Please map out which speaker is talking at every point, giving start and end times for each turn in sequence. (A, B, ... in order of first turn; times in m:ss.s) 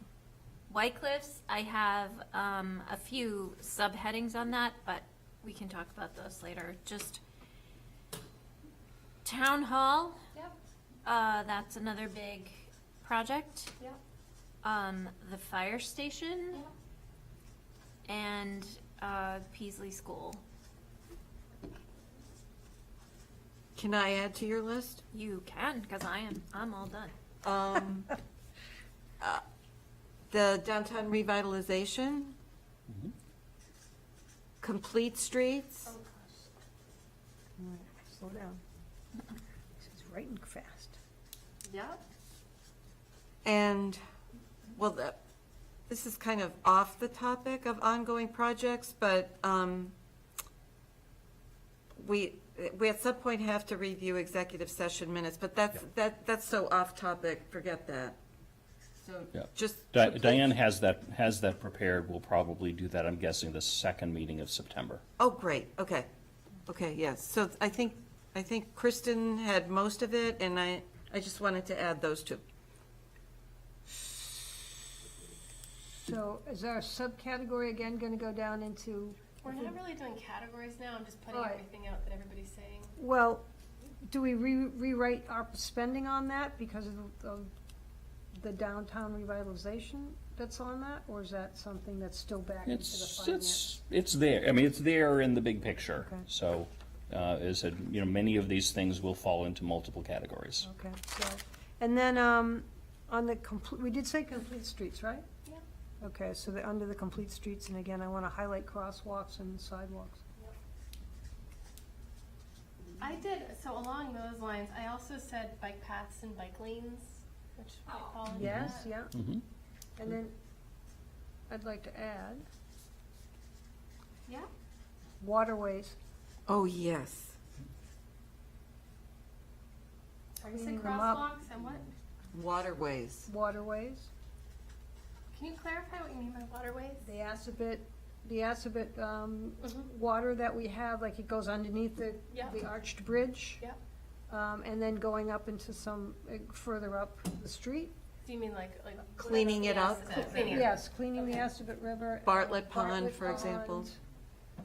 0:00.7-0:07.2 A
0:09.2-0:10.3 A
0:11.0-0:13.7 A
0:14.6-0:16.6 A
0:18.0-0:20.4 A
0:23.8-0:25.0 B
0:25.1-0:27.1 A
0:27.4-0:28.2 B
0:30.3-0:32.3 B
0:34.6-0:35.9 B
0:35.9-0:36.3 C
0:37.6-0:38.6 D
0:39.8-0:41.0 D
0:41.6-0:42.0 C
0:43.4-0:44.0 B
0:44.7-0:45.2 B
0:45.9-0:49.9 B
0:52.0-0:58.2 B
0:59.0-1:00.5 B
0:59.3-1:05.0 E
1:05.2-1:06.1 B
1:06.6-1:12.4 B
1:15.9-1:19.8 D
1:19.4-1:22.9 C
1:21.3-1:21.6 D
1:23.0-1:23.4 D
1:24.0-1:27.5 D
1:28.3-1:33.7 D
1:32.6-1:40.7 E
1:36.0-1:36.2 D
1:40.6-1:45.2 D
1:46.0-1:50.2 D
1:53.0-1:58.8 C
1:58.3-1:59.1 D
1:58.3-1:59.4 E
2:00.0-2:00.4 D
2:01.5-2:02.4 D
2:05.2-2:05.9 D
2:06.5-2:07.3 B
2:10.4-2:11.9 C
2:10.4-2:11.3 D
2:12.3-2:13.3 B
2:13.2-2:14.1 D
2:15.3-2:17.0 C
2:17.0-2:23.6 D
2:24.3-2:27.9 D
2:28.2-2:30.7 C
2:29.2-2:30.5 B
2:30.4-2:34.0 D
2:32.2-2:33.9 B